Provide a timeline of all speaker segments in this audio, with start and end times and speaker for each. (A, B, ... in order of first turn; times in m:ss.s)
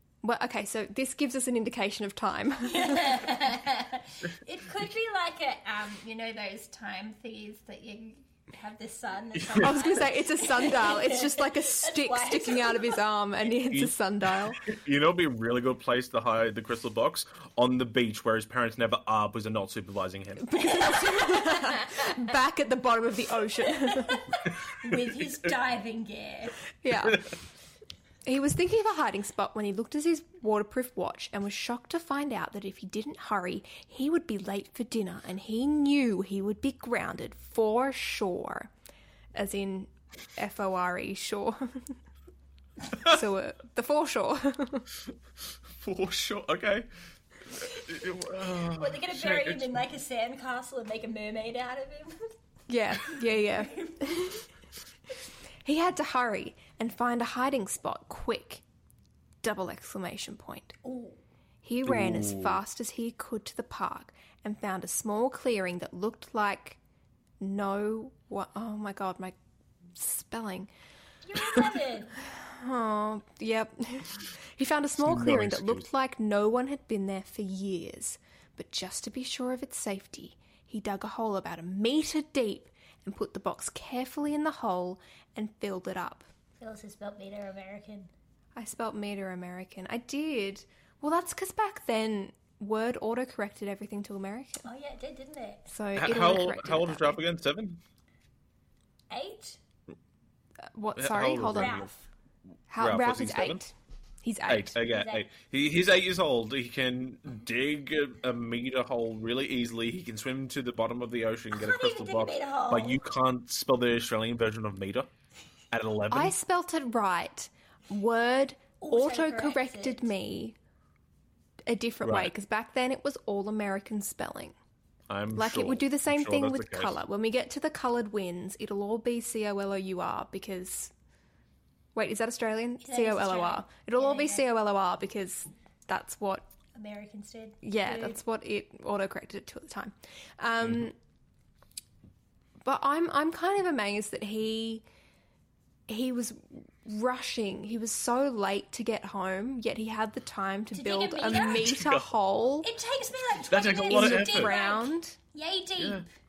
0:00.2-0:03.4 A
0:02.6-0:13.0 B
0:09.3-0:09.8 C
0:09.6-0:14.6 A
0:14.6-0:20.6 C
0:20.4-0:24.3 A
0:21.2-0:22.1 B
0:23.8-0:26.6 B
0:26.8-0:27.2 A
0:28.2-0:38.7 A
0:39.3-0:42.0 A
0:42.9-0:44.9 A
0:45.7-0:46.9 C
0:47.4-0:49.8 C
0:48.7-0:52.2 B
0:52.7-0:54.4 A
0:53.3-0:54.4 B
0:55.6-0:58.6 A
0:59.4-1:00.7 A
1:00.8-1:01.2 B
1:01.6-1:06.8 A
1:01.8-1:02.6 C
1:07.4-1:09.3 A
1:10.0-1:10.7 A
1:11.2-1:12.2 B
1:12.4-1:26.2 A
1:15.0-1:15.9 C
1:26.6-1:28.1 B
1:28.5-1:34.6 A
1:34.6-1:35.7 B
1:35.7-1:37.2 A
1:35.9-1:37.8 C
1:39.1-1:39.6 B
1:40.7-1:41.9 A
1:41.0-1:41.9 C
1:41.5-1:42.0 B
1:42.7-1:43.7 A
1:42.8-1:43.6 C
1:44.2-1:44.7 A
1:44.5-1:55.1 C
1:44.8-1:45.3 B
1:51.5-1:53.0 B
1:55.7-1:56.3 C
1:56.1-2:00.6 A
1:58.8-2:00.1 B
2:01.6-2:04.5 A
2:02.0-2:02.3 C
2:05.1-2:07.0 C
2:05.3-2:10.9 A
2:11.9-2:16.4 A
2:12.8-2:14.4 B
2:16.7-2:18.2 B
2:17.6-2:20.9 A
2:22.6-2:24.8 A
2:25.9-2:32.7 A
2:30.7-2:31.7 B
2:31.3-2:32.1 C
2:32.6-2:36.1 B
2:33.5-2:34.5 C
2:33.9-2:35.2 A
2:35.8-2:36.0 C